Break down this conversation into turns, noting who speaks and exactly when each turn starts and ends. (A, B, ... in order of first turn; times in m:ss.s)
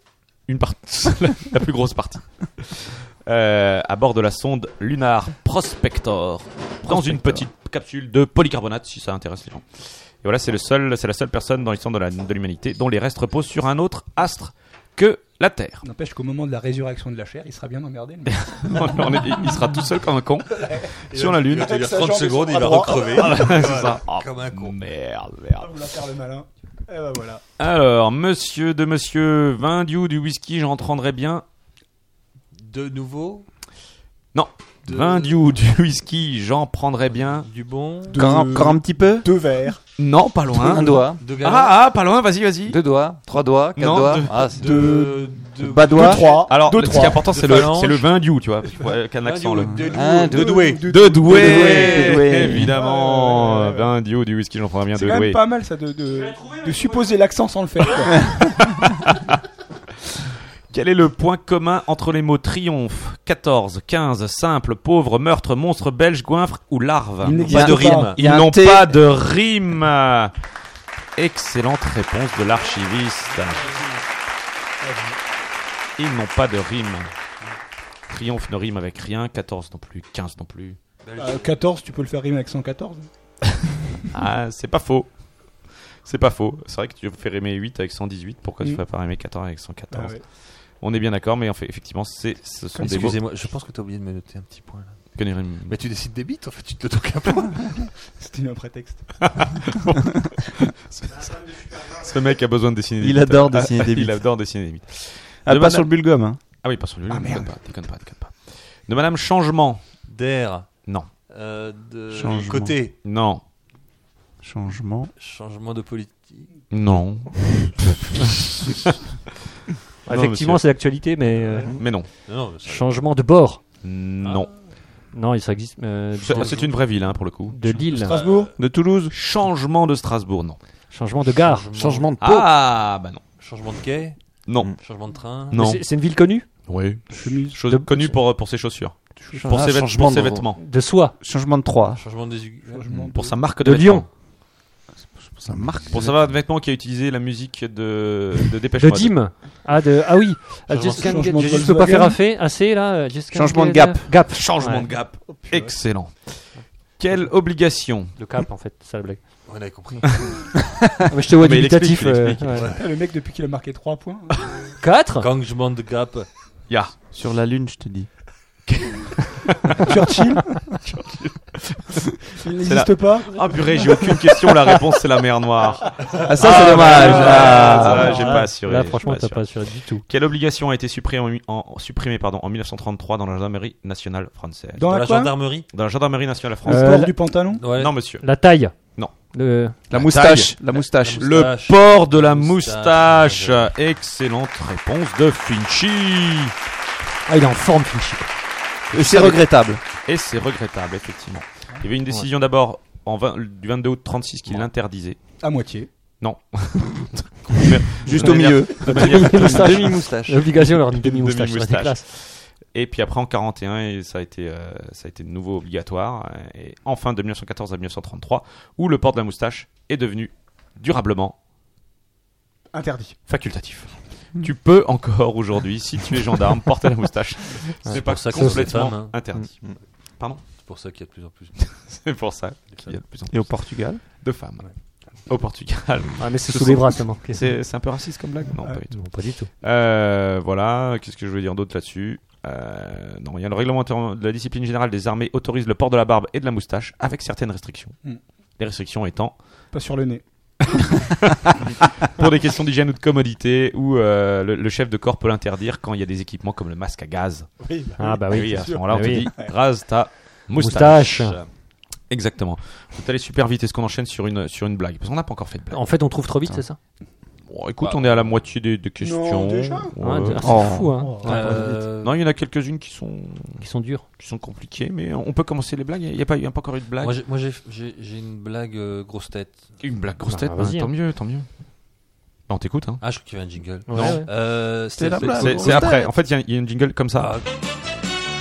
0:00.5-0:15.8 A
0:06.9-0:07.5 B
0:15.8-0:19.5 C
0:18.3-0:21.8 A
0:20.6-0:20.8 C
0:21.1-0:24.8 D
0:21.5-0:23.7 C
0:23.1-0:25.8 A
0:25.6-0:27.4 C
0:27.6-0:31.4 A
0:32.6-0:33.5 D
0:34.3-0:37.5 A
0:34.9-0:35.4 D
0:37.3-0:38.5 D
0:38.1-0:39.8 C
0:38.2-0:39.3 B
0:40.0-0:42.8 A
0:40.6-0:41.2 E
0:41.2-0:41.8 D
0:42.7-0:44.8 E
0:43.8-0:44.4 A
0:44.4-0:46.5 D
0:44.5-0:47.6 C
0:45.6-0:46.4 B
0:46.0-0:49.9 A
0:47.2-0:48.1 D
0:48.8-0:52.6 D
0:49.9-0:50.8 E
0:50.0-0:53.9 C
0:50.9-0:55.4 A
0:51.3-0:52.8 B
0:54.9-0:58.4 C
0:58.8-0:59.4 A
1:00.7-1:10.3 A
1:07.2-1:08.2 C
1:07.5-1:08.2 D
1:07.5-1:09.0 B
1:11.2-1:13.7 A
1:14.8-1:15.2 C
1:16.0-1:17.1 A
1:18.1-1:20.8 A
1:21.0-1:21.5 D
1:21.2-1:23.1 C
1:24.1-1:25.1 A
1:26.0-1:30.2 A
1:29.9-1:30.2 C
1:30.8-1:33.2 A
1:32.8-1:37.9 D
1:35.1-1:35.7 A
1:38.0-1:39.2 C
1:39.2-1:45.9 A
1:43.0-1:44.2 B
1:45.5-1:46.4 B
1:46.6-1:49.9 A
1:47.1-1:47.5 C
1:50.1-1:50.7 D
1:51.3-1:53.0 D
1:52.1-1:52.8 B
1:53.0-1:53.4 A
1:54.4-1:55.1 B
1:55.2-1:56.5 D
1:56.7-1:59.0 A
2:00.1-2:01.7 F
2:00.1-2:00.6 A
2:01.7-2:02.1 A
2:02.2-2:02.9 D
2:02.6-2:03.6 F
2:03.8-2:04.5 A
2:04.2-2:04.6 D
2:05.1-2:06.6 F
2:06.2-2:07.8 A
2:06.3-2:06.8 D
2:07.5-2:08.2 F
2:07.8-2:08.5 D
2:08.2-2:08.5 C
2:08.6-2:09.1 B
2:09.1-2:10.6 A
2:10.9-2:11.7 F
2:11.4-2:12.1 D
2:11.7-2:12.5 E
2:12.2-2:13.2 A
2:13.4-2:14.2 D
2:14.5-2:14.8 A
2:14.7-2:15.6 D
2:15.5-2:15.8 A
2:15.5-2:16.5 F
2:16.7-2:20.6 A
2:17.1-2:17.6 C
2:17.6-2:18.2 F
2:19.3-2:19.7 F
2:19.4-2:20.5 E
2:20.6-2:21.2 F
2:21.2-2:22.0 B
2:22.0-2:22.9 D
2:22.7-2:23.4 C
2:22.9-2:24.1 A
2:23.6-2:24.1 F
2:25.0-2:26.2 B
2:25.9-2:29.2 A
2:28.8-2:35.3 F
2:30.7-2:32.2 C
2:33.3-2:34.1 B
2:34.3-2:38.1 A
2:38.2-2:39.6 F
2:39.5-2:40.5 D
2:41.1-2:42.7 F
2:41.4-2:42.6 A
2:42.5-2:42.9 D
2:42.7-2:44.5 C
2:44.8-2:45.3 F
2:45.1-2:46.3 D
2:46.7-2:47.0 A
2:47.1-2:48.1 B
2:48.7-2:49.9 A
2:49.8-2:50.8 C
2:50.8-3:05.0 A
2:52.4-2:54.1 C
2:56.0-2:58.3 D
2:56.2-2:58.3 B
2:57.2-3:00.0 F
2:57.3-2:58.4 C
3:04.8-3:05.5 C
3:04.9-3:05.7 D
3:05.6-3:09.1 A
3:06.6-3:07.7 C
3:06.7-3:07.2 F
3:07.5-3:08.0 D
3:08.1-3:09.8 F
3:09.9-3:11.3 B
3:09.9-3:16.5 A
3:10.7-3:13.7 D
3:17.3-3:18.3 F
3:18.9-3:19.4 F
3:18.9-3:19.8 B
3:20.0-3:25.2 A
3:25.4-3:25.9 C
3:26.2-3:30.0 A
3:28.0-3:29.4 B
3:28.6-3:32.0 F
3:29.0-3:30.4 E
3:30.6-3:41.4 A
3:42.7-3:43.2 C
3:43.3-3:49.6 A
3:47.9-3:49.5 F
3:47.9-3:49.8 D
3:50.2-3:50.4 A
3:50.4-3:51.7 D
3:51.6-3:54.7 A
3:52.7-3:53.0 D
3:53.3-3:54.0 B
3:55.2-3:59.1 A
3:56.2-3:57.4 F
3:58.6-3:58.8 C
3:58.9-3:59.5 F
3:59.6-4:08.0 A
4:08.6-4:09.4 A
4:09.7-4:10.2 C
4:10.7-4:17.5 A
4:17.6-4:19.5 C
4:18.0-4:19.3 F
4:18.3-4:21.5 A
4:20.6-4:21.4 F
4:22.1-4:25.8 A
4:25.7-4:26.8 F
4:27.5-4:33.6 A
4:27.8-4:28.4 D
4:29.0-4:29.9 C
4:30.0-4:31.8 F
4:30.4-4:31.0 B
4:30.9-4:31.5 C
4:31.2-4:32.2 D
4:33.6-4:34.0 F
4:34.2-4:37.2 A
4:37.0-4:39.7 D
4:39.8-4:41.5 A
4:40.2-4:40.9 F
4:42.5-4:43.0 A
4:43.0-4:45.9 D
4:43.9-4:44.3 F
4:43.9-4:44.2 A
4:45.0-4:46.1 B
4:45.2-4:47.4 A
4:47.2-4:47.5 D